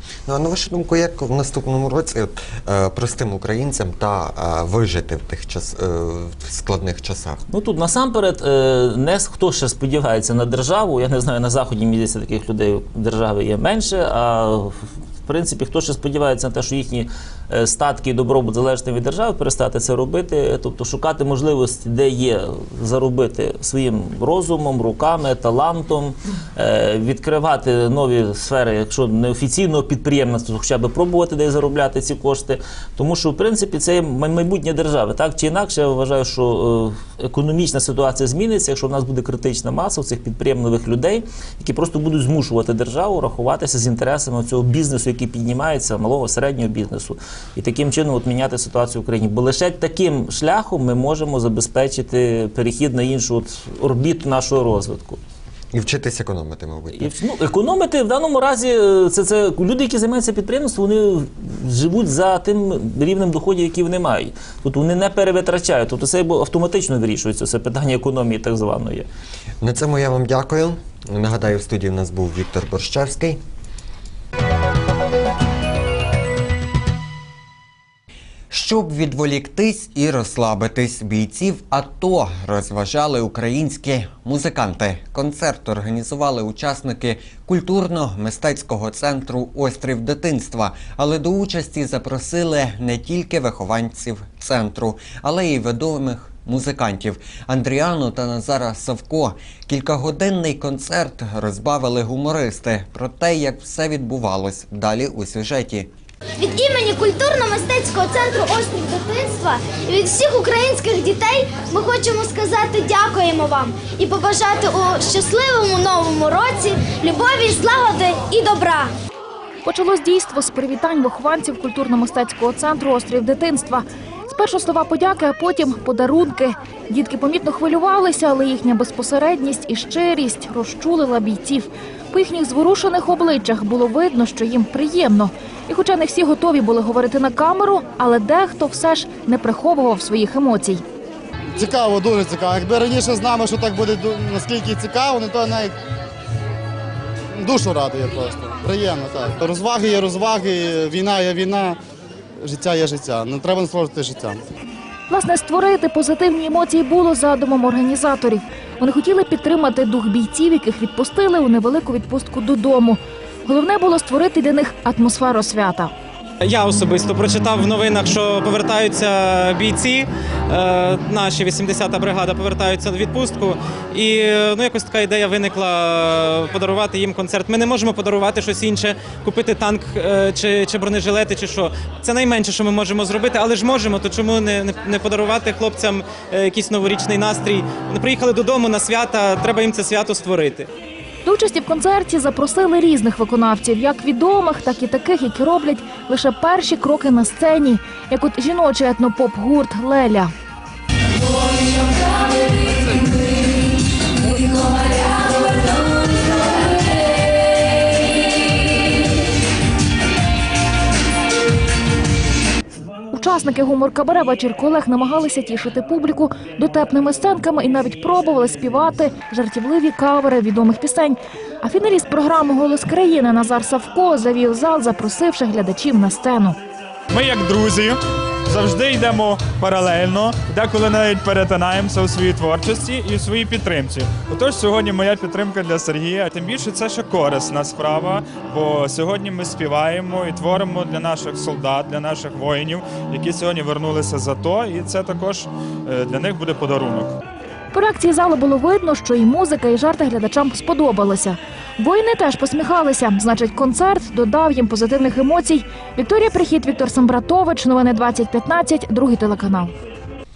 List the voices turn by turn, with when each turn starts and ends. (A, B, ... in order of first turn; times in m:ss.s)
0:00.3-0:07.4 A
0:07.5-0:55.2 B
0:55.7-0:57.1 A
0:56.9-1:09.1 B
1:09.6-1:13.4 A
1:18.5-1:45.9 A
1:46.4-1:58.9 C
1:59.6-2:20.8 D
2:21.6-2:25.7 E
2:27.4-2:31.8 E
2:32.4-2:34.4 E
2:35.1-2:45.9 D
2:46.4-3:10.7 F
3:11.2-3:20.3 D
3:33.1-3:46.6 D
3:47.1-4:07.2 G
4:07.7-4:19.7 D